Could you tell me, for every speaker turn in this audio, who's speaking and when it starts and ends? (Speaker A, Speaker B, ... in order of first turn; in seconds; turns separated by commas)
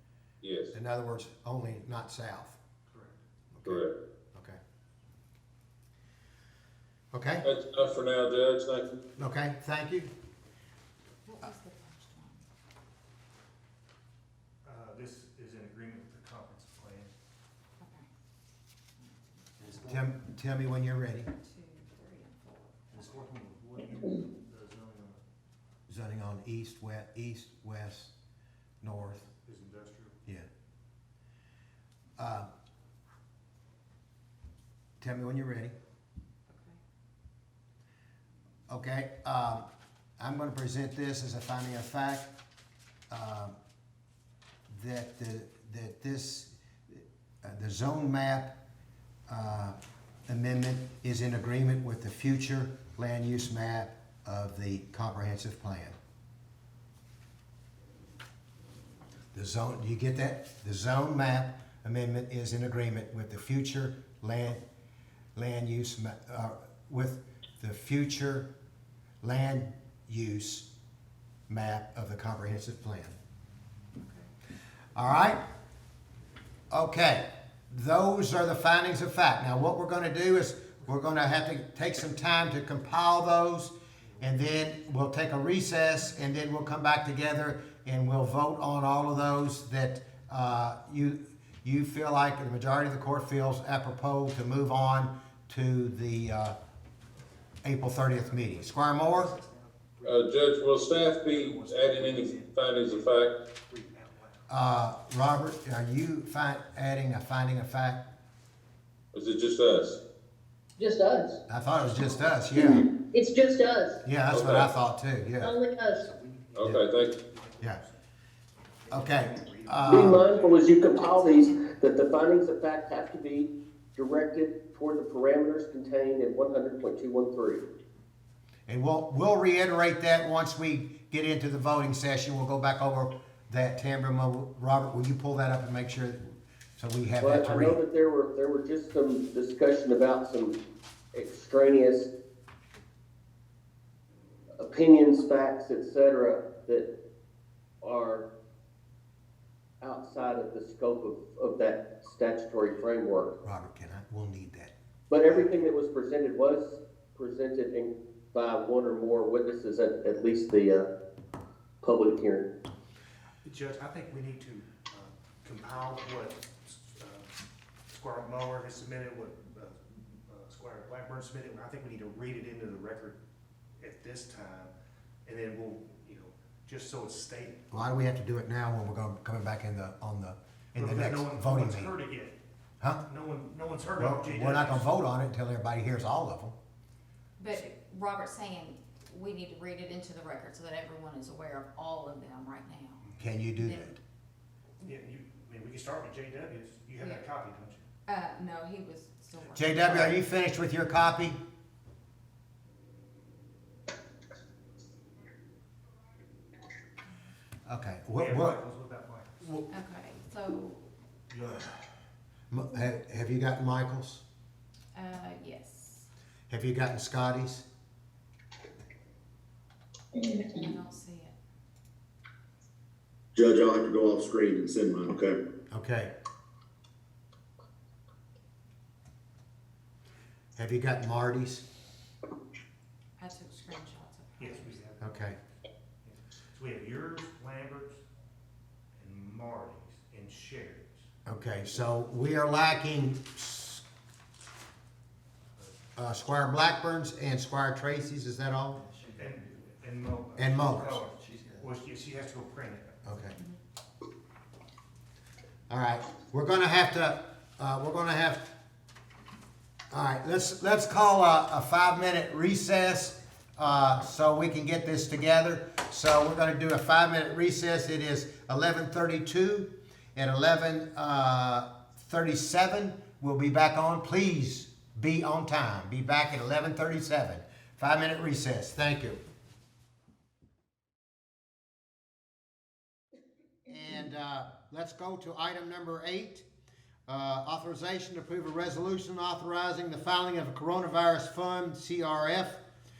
Speaker A: 0.4-0.7, Speaker B: 0.7-2.6, Speaker C: 2.9-3.8, Speaker A: 3.6-3.9, Speaker B: 7.1-7.5, Speaker A: 7.4-9.0, Speaker B: 9.2-10.1, Speaker D: 11.2-12.4, Speaker C: 14.6-17.1, Speaker D: 17.8-18.1, Speaker D: 19.0-19.8, Speaker C: 19.6-20.1, Speaker B: 19.8-21.3, Speaker D: 21.3-23.1, Speaker C: 22.9-25.2, Speaker B: 25.9-28.1, Speaker B: 28.8-29.2, Speaker C: 29.3-30.2, Speaker B: 32.2-32.5, Speaker B: 35.0-35.8, Speaker D: 36.5-36.8, Speaker B: 38.7-39.6, Speaker B: 40.2-42.3, Speaker B: 43.1-43.5, Speaker B: 44.7-48.5, Speaker B: 49.3-49.8, Speaker B: 50.3-56.0, Speaker B: 59.3-64.6, Speaker B: 65.3-68.5, Speaker B: 69.2-70.7, Speaker B: 71.5-73.2, Speaker D: 74.0-74.3, Speaker B: 74.9-75.4, Speaker B: 76.7-96.5, Speaker B: 97.6-99.3, Speaker C: 98.2-104.5, Speaker A: 100.0-103.3, Speaker B: 104.5-108.0, Speaker A: 109.1-110.0, Speaker E: 110.8-111.4, Speaker B: 111.5-112.8, Speaker E: 112.5-114.0, Speaker B: 114.0-115.5, Speaker A: 114.3-114.7, Speaker E: 115.4-116.1, Speaker C: 115.9-118.0, Speaker A: 116.5-117.1, Speaker C: 118.8-120.8, Speaker B: 118.9-120.2, Speaker F: 119.8-127.6, Speaker D: 120.8-121.7, Speaker B: 128.7-137.8, Speaker F: 137.2-140.5, Speaker F: 141.1-142.1, Speaker F: 144.6-146.9, Speaker F: 147.8-148.2, Speaker F: 149.8-153.3, Speaker B: 153.4-154.7, Speaker F: 155.1-160.8, Speaker F: 161.8-162.4, Speaker C: 163.4-167.3, Speaker C: 167.9-173.2, Speaker C: 173.8-174.7, Speaker C: 175.2-177.6, Speaker B: 177.7-181.9, Speaker C: 180.8-182.4, Speaker C: 183.1-184.9, Speaker B: 184.0-186.5, Speaker D: 187.4-194.0, Speaker B: 193.2-193.9, Speaker C: 194.8-197.9, Speaker D: 197.0-197.3, Speaker D: 198.1-200.1, Speaker B: 199.5-201.4, Speaker B: 207.6-208.6, Speaker C: 208.1-209.6, Speaker D: 209.7-210.7, Speaker C: 211.3-211.8, Speaker B: 212.5-214.2, Speaker D: 214.9-216.1, Speaker B: 216.5-217.7, Speaker D: 220.2-221.3, Speaker G: 223.3-225.4, Speaker B: 225.7-226.1, Speaker B: 230.6-231.6, Speaker D: 233.2-234.8, Speaker C: 234.4-235.4, Speaker B: 235.0-235.4, Speaker C: 236.0-238.0, Speaker C: 239.0-241.1, Speaker B: 241.2-243.8, Speaker B: 245.9-248.8, Speaker C: 249.1-253.0, Speaker B: 250.3-250.9, Speaker B: 253.0-253.4, Speaker B: 255.7-258.5, Speaker B: 259.9-279.2, Speaker B: 283.7-286.4, Speaker B: 287.1-292.6